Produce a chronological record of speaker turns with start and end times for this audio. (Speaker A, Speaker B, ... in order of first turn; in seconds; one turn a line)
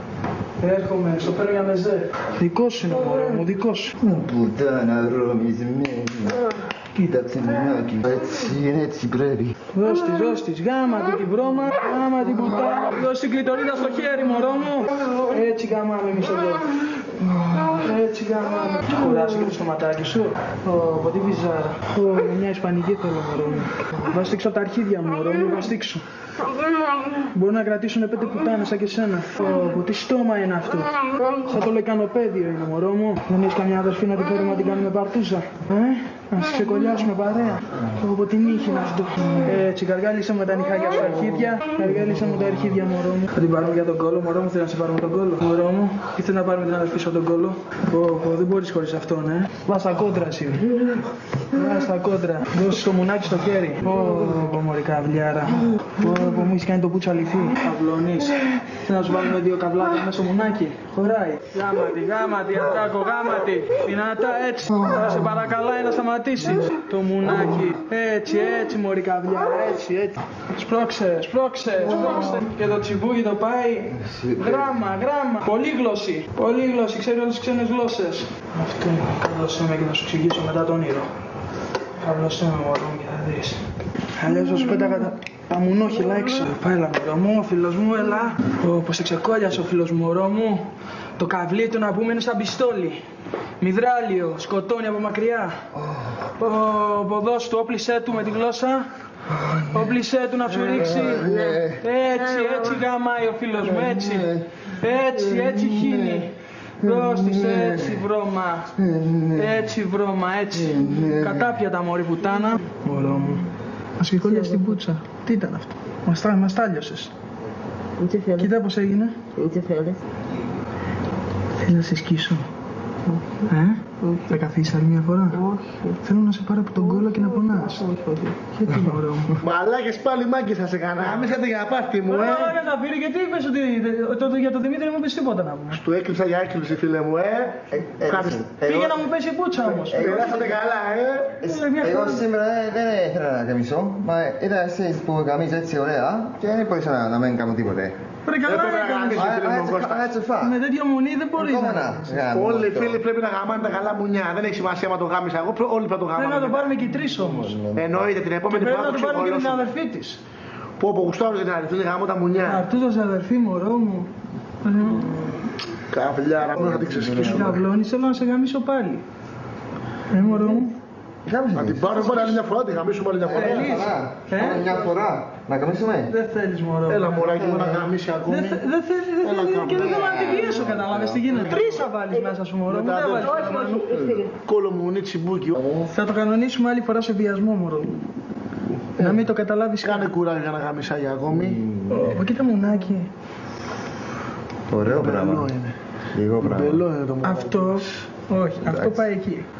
Speaker A: 0.6-3.9
Speaker B: 4.0-9.5
Speaker A: 9.7-26.0
Speaker A: 27.2-81.1
Speaker B: 73.9-74.8
Speaker A: 82.0-93.0
Speaker A: 93.6-95.6
Speaker B: 95.8-96.3
Speaker A: 96.4-98.9
Speaker B: 99.3-99.9
Speaker A: 99.7-113.5
Speaker B: 100.6-101.8
Speaker B: 103.7-104.4
Speaker B: 105.3-106.3
Speaker B: 106.8-108.0
Speaker B: 108.8-109.6
Speaker B: 110.7-111.3
Speaker A: 114.0-117.1
Speaker C: 118.0-118.4
Speaker A: 118.3-119.2
Speaker C: 119.4-120.0
Speaker A: 121.6-122.4
Speaker A: 123.4-129.4
Speaker D: 129.4-132.6
Speaker A: 132.1-135.8
Speaker D: 135.7-138.4
Speaker B: 137.7-139.0
Speaker A: 138.6-140.4
Speaker D: 139.6-141.4
Speaker B: 139.9-140.6
Speaker A: 141.4-142.3
Speaker B: 141.4-147.9
Speaker A: 148.2-149.3
Speaker D: 148.4-150.1
Speaker B: 149.1-150.6
Speaker A: 150.4-152.2
Speaker B: 151.3-153.0
Speaker D: 152.2-156.8
Speaker A: 156.1-157.6
Speaker B: 156.9-158.1
Speaker D: 157.7-159.7
Speaker A: 158.5-160.2
Speaker D: 160.8-162.7
Speaker A: 162.4-164.1
Speaker A: 164.6-165.5
Speaker D: 165.9-167.6
Speaker B: 166.5-167.6
Speaker A: 167.1-169.0
Speaker A: 170.1-170.8
Speaker B: 171.2-172.2
Speaker D: 171.5-173.9
Speaker A: 172.0-172.4
Speaker B: 173.2-176.1
Speaker A: 173.3-174.9
Speaker A: 176.1-183.9
Speaker D: 176.9-178.6
Speaker B: 177.4-177.7
Speaker D: 179.2-180.2
Speaker B: 179.6-181.4
Speaker D: 181.3-181.7
Speaker D: 182.7-185.6
Speaker C: 183.4-184.3
Speaker B: 185.6-185.9
Speaker A: 185.9-187.9
Speaker D: 189.0-189.2
Speaker A: 189.0-190.2
Speaker D: 189.8-191.6
Speaker B: 191.3-192.3
Speaker A: 191.9-193.1
Speaker B: 194.7-195.5
Speaker D: 194.8-195.7
Speaker B: 196.1-196.8
Speaker D: 196.4-197.9
Speaker A: 197.2-199.5
Speaker B: 198.7-199.0